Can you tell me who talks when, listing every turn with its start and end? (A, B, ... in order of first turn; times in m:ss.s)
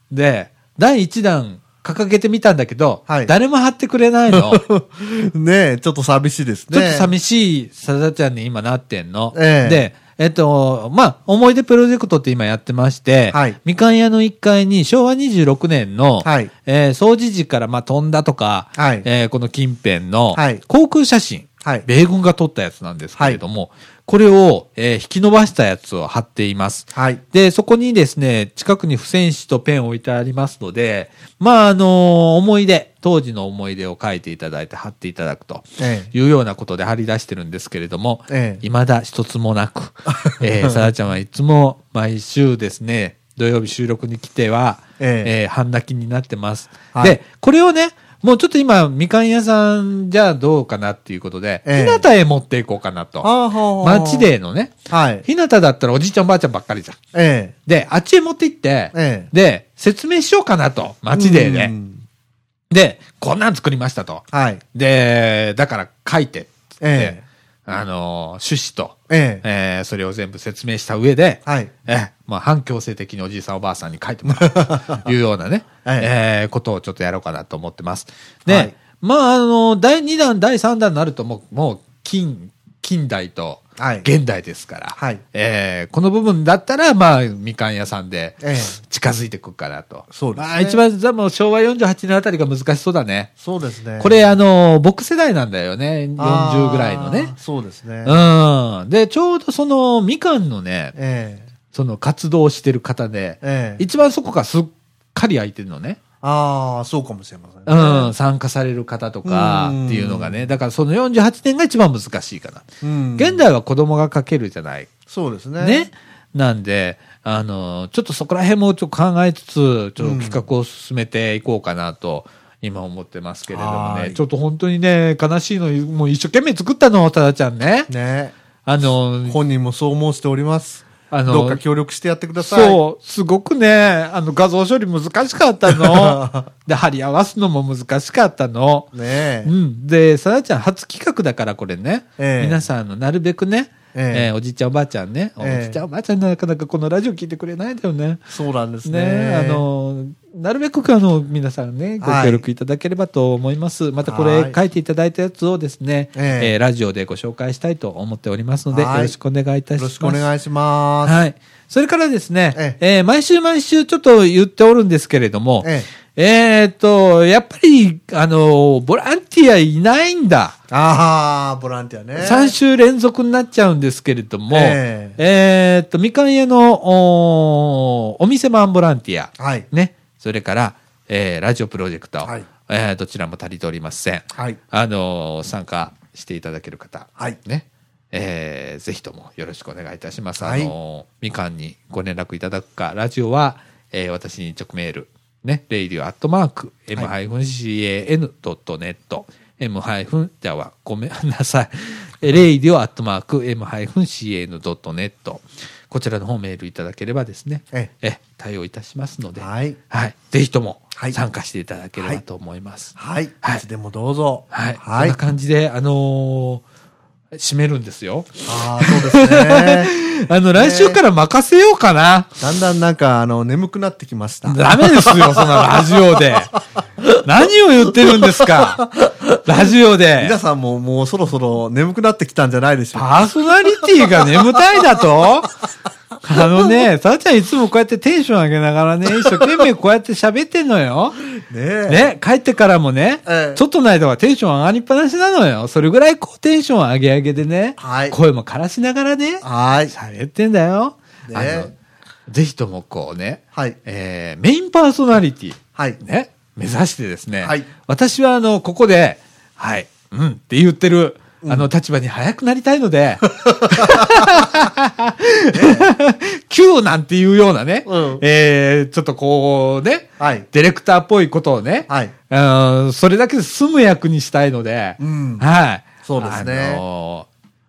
0:00.1-0:04.6 A
0:04.3-0:07.1 B
0:06.7-0:57.0 A
0:09.3-0:09.9 B
0:13.3-0:13.6 B
0:16.2-0:16.5 B
0:18.8-0:19.0 B
0:20.3-0:20.6 B
0:26.9-0:27.2 B
0:35.8-0:36.1 B
0:38.3-0:38.6 B
0:40.1-0:40.9 B
0:45.0-0:45.3 B
0:51.6-0:52.0 B
0:53.2-0:54.3 B
0:54.9-0:55.2 B
0:57.1-0:57.5 B
0:57.6-1:01.7 A
0:58.9-0:59.3 B
1:01.1-1:02.0 B
1:02.7-1:33.3 A
1:04.3-1:04.6 B
1:06.8-1:07.2 B
1:09.1-1:09.4 B
1:11.4-1:11.7 B
1:14.3-1:15.0 B
1:15.8-1:16.1 B
1:18.5-1:18.7 B
1:23.8-1:24.1 B
1:25.0-1:25.2 B
1:28.4-1:28.7 B
1:30.1-1:30.8 B
1:33.4-1:34.2 B
1:34.0-1:37.3 A
1:36.2-1:38.2 B
1:38.0-1:40.9 A
1:40.9-1:41.5 B
1:41.7-1:46.0 A
1:43.4-1:43.8 B
1:46.2-1:48.1 B
1:47.7-1:54.9 A
1:49.2-1:50.5 B
1:52.8-1:53.4 B
1:55.1-1:55.9 B
1:55.6-2:07.9 A
2:00.0-2:00.4 B
2:03.5-2:04.2 B
2:07.9-2:08.3 B
2:08.6-2:09.4 A
2:09.3-2:12.8 B
2:11.1-2:11.6 A
2:12.4-2:28.3 A
2:15.7-2:16.5 B
2:18.9-2:19.5 B
2:22.2-2:22.6 B
2:23.9-2:24.3 B
2:25.4-2:25.8 B
2:28.3-2:29.6 B
2:28.8-2:40.2 A
2:32.0-2:32.4 B
2:34.0-2:34.6 B
2:36.1-2:36.5 B
2:38.7-2:39.2 B
2:39.8-2:41.2 B
2:41.0-2:50.6 A
2:45.6-2:45.9 B
2:50.7-2:52.5 B
2:52.2-3:33.6 A
2:54.5-2:55.2 B
2:59.4-2:59.7 B
3:10.4-3:10.7 B
3:29.4-3:29.8 B
3:33.0-3:35.2 B
3:34.5-3:36.6 A
3:37.4-3:42.4 A
3:38.4-3:39.9 B
3:40.5-3:41.0 B
3:42.4-3:46.2 B
3:44.4-3:46.5 A
3:47.2-3:48.9 A
3:48.1-3:48.9 B
3:49.4-3:50.4 A
3:50.2-3:53.2 B
3:52.9-3:55.5 A
3:53.8-3:54.1 B
3:56.2-4:01.2 A
4:01.4-4:02.1 B
4:01.9-4:11.7 A
4:03.2-4:03.6 B
4:07.8-4:08.2 B
4:09.4-4:09.9 B
4:11.3-4:11.7 B
4:12.3-4:37.3 A
4:13.5-4:13.8 B
4:21.4-4:21.7 B
4:23.4-4:24.7 B
4:25.5-4:25.9 B
4:27.8-4:28.2 B
4:30.2-4:30.5 B
4:31.9-4:32.1 B
4:35.0-4:35.4 B
4:36.0-4:36.8 B